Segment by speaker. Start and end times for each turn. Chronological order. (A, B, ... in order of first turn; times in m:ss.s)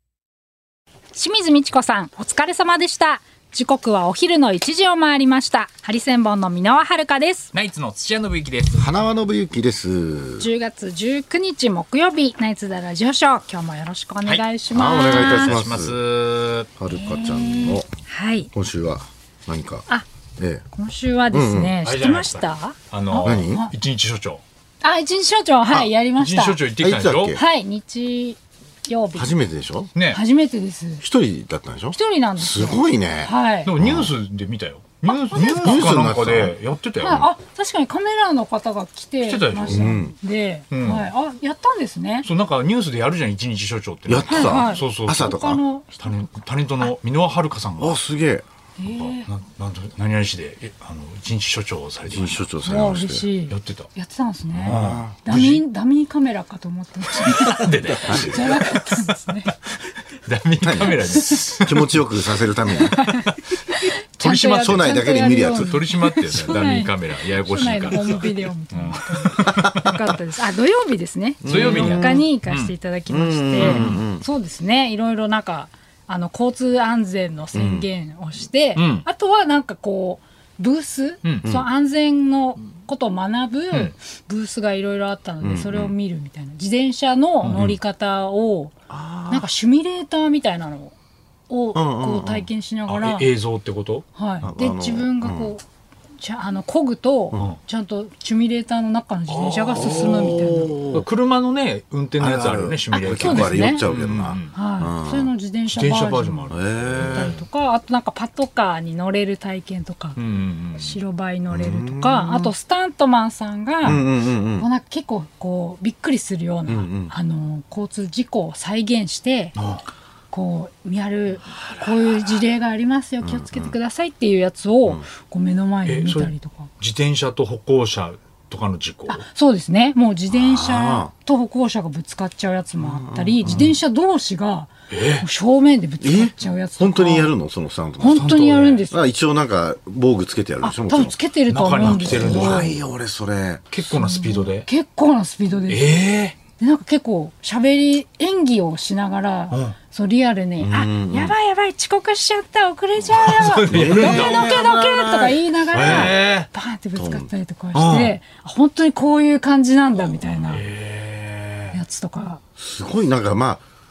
0:01.1-0:07.5 A
0:07.5-0:08.9 B
0:08.7-0:10.5 C
0:10.4-0:15.5 A
0:14.7-0:16.0 C
0:15.0-0:16.7 B
0:16.8-0:17.9 C
0:16.9-0:18.5 A
0:18.5-0:19.9 C
0:20.4-0:20.6 C
0:20.7-0:23.7 A
0:21.3-0:21.8 C
0:21.8-0:24.4 B
0:23.2-0:23.7 C
0:24.8-0:26.6 A
0:26.2-0:27.4 B
0:26.8-0:27.4 C
0:27.3-0:29.3 A
0:29.1-0:29.9 C
0:29.9-0:30.2 B
0:30.1-0:31.0 A
0:31.0-0:34.1 C
0:31.9-0:33.7 A
0:33.6-0:37.2 B
0:35.1-0:35.8 A
0:35.4-0:37.3 C
0:37.0-0:42.3 A
0:39.2-0:40.0 B
0:39.6-0:40.1 C
0:40.7-0:41.1 B
0:42.2-0:45.4 B
0:44.0-0:45.6 C
0:44.3-0:46.9 A
0:46.0-0:48.0 B
0:47.8-0:48.4 C
0:48.8-0:49.3 A
0:48.9-0:52.4 B
0:52.1-0:53.3 C
0:52.6-0:59.5 A
0:53.5-0:53.9 B
0:54.5-0:55.6 B
0:54.6-0:55.2 C
0:57.2-0:59.0 B
0:58.1-0:58.5 C
1:00.2-1:02.1 B
1:00.6-1:03.0 C
1:00.8-1:01.5 A
1:02.8-1:28.7 A
1:02.9-1:03.6 B
1:04.2-1:05.0 B
1:04.5-1:05.7 C
1:05.5-1:09.9 B
1:09.4-1:09.8 C
1:11.4-1:12.3 C
1:11.4-1:12.7 B
1:13.1-1:14.2 C
1:13.6-1:14.0 B
1:17.5-1:17.9 C
1:18.8-1:19.0 B
1:21.2-1:21.5 B
1:25.4-1:25.9 C
1:27.4-1:27.7 B
1:28.9-1:29.5 C
1:29.3-1:30.9 A
1:31.5-1:33.3 A
1:31.7-1:32.5 C
1:32.9-1:34.0 B
1:34.1-1:35.6 A
1:34.4-1:35.5 C
1:36.2-1:40.8 A
1:39.3-1:44.5 B
1:39.7-1:41.1 C
1:42.2-1:45.3 C
1:42.9-1:43.8 A
1:44.5-1:50.2 A
1:45.7-1:47.4 B
1:46.5-1:47.3 C
1:50.2-1:51.0 B
1:50.7-1:59.6 A
1:51.5-1:52.5 C
1:53.8-1:54.7 C
1:56.7-1:57.1 C
1:59.6-1:59.8 B
2:00.3-2:06.7 A
2:03.2-2:03.8 C
2:05.8-2:09.2 B
2:09.1-2:17.3 A
2:10.3-2:11.1 C
2:12.8-2:13.7 C
2:13.4-2:13.7 B
2:14.9-2:15.2 B
2:16.0-2:18.3 C
2:18.0-2:19.0 A
2:18.0-2:18.9 B
2:18.9-2:21.2 C
2:20.6-2:22.8 A
2:21.5-2:22.7 B
2:21.8-2:23.6 C
2:23.7-2:24.7 B
2:23.9-2:40.6 A
2:25.7-2:26.4 B
2:29.5-2:29.8 B
2:30.6-2:31.3 C
2:33.1-2:34.6 B
2:33.7-2:36.2 C
2:35.7-2:36.5 B
2:37.0-2:37.3 C
2:37.7-2:38.2 B
2:40.5-2:41.8 B
2:41.7-2:42.4 A
2:42.6-2:43.6 C